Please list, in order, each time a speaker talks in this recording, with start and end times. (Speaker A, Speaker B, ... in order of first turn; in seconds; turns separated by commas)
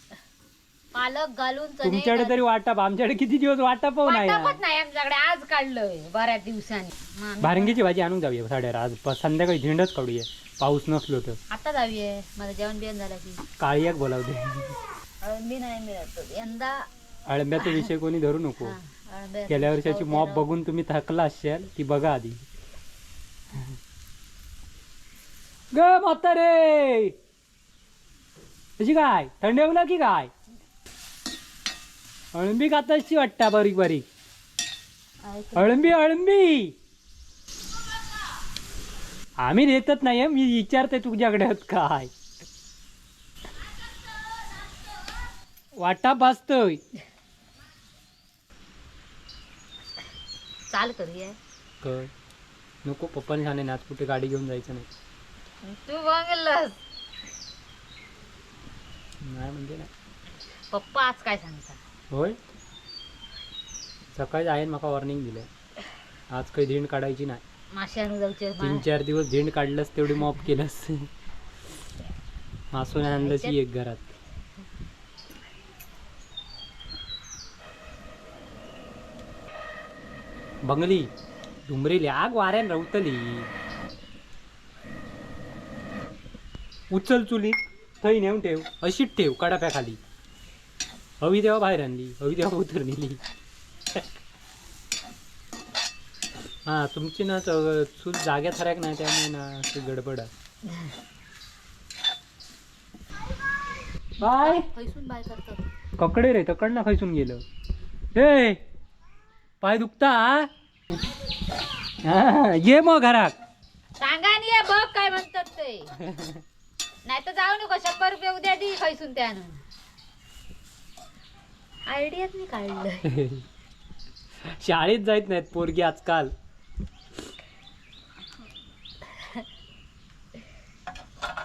Speaker A: 0.9-2.4, Speaker B: 1.8-4.6, Speaker A: 4.0-7.8, Speaker B: 7.4-11.4, Speaker A: 11.5-13.4, Speaker B: 13.6-14.8, Speaker A: 15.2-16.9, Speaker B: 17.2-18.8, Speaker A: 17.6-17.9, Speaker A: 18.6-20.4, Speaker B: 19.5-22.4, Speaker B: 25.7-27.1, Speaker B: 28.8-30.3, Speaker B: 32.3-34.0, Speaker A: 35.2-36.0, Speaker B: 35.5-36.7, Speaker B: 39.4-42.1, Speaker B: 45.8-46.8, Speaker A: 50.7-51.4, Speaker B: 51.8-52.1, Speaker B: 52.8-54.9, Speaker A: 55.6-56.8, Speaker B: 59.2-59.9, Speaker A: 60.7-61.8, Speaker B: 62.1-62.4, Speaker B: 64.1-65.5, Speaker B: 66.3-67.4, Speaker A: 67.7-68.8, Speaker B: 68.6-71.1, Speaker B: 72.7-74.1, Speaker A: 73.1-73.5, Speaker B: 80.6-81.1, Speaker B: 81.7-83.5, Speaker B: 86.9-90.0, Speaker B: 91.2-93.2, Speaker B: 93.9-94.2, Speaker B: 96.6-100.3, Speaker B: 104.2-104.7, Speaker A: 104.2-105.7, Speaker B: 106.0-107.4, Speaker B: 108.1-108.6, Speaker B: 109.6-110.5, Speaker B: 112.0-113.3, Speaker A: 114.0-116.0, Speaker B: 116.0-116.4, Speaker A: 117.0-119.6, Speaker A: 121.9-123.1, Speaker B: 123.0-123.5, Speaker B: 124.4-126.3, Speaker A: 129.1-129.4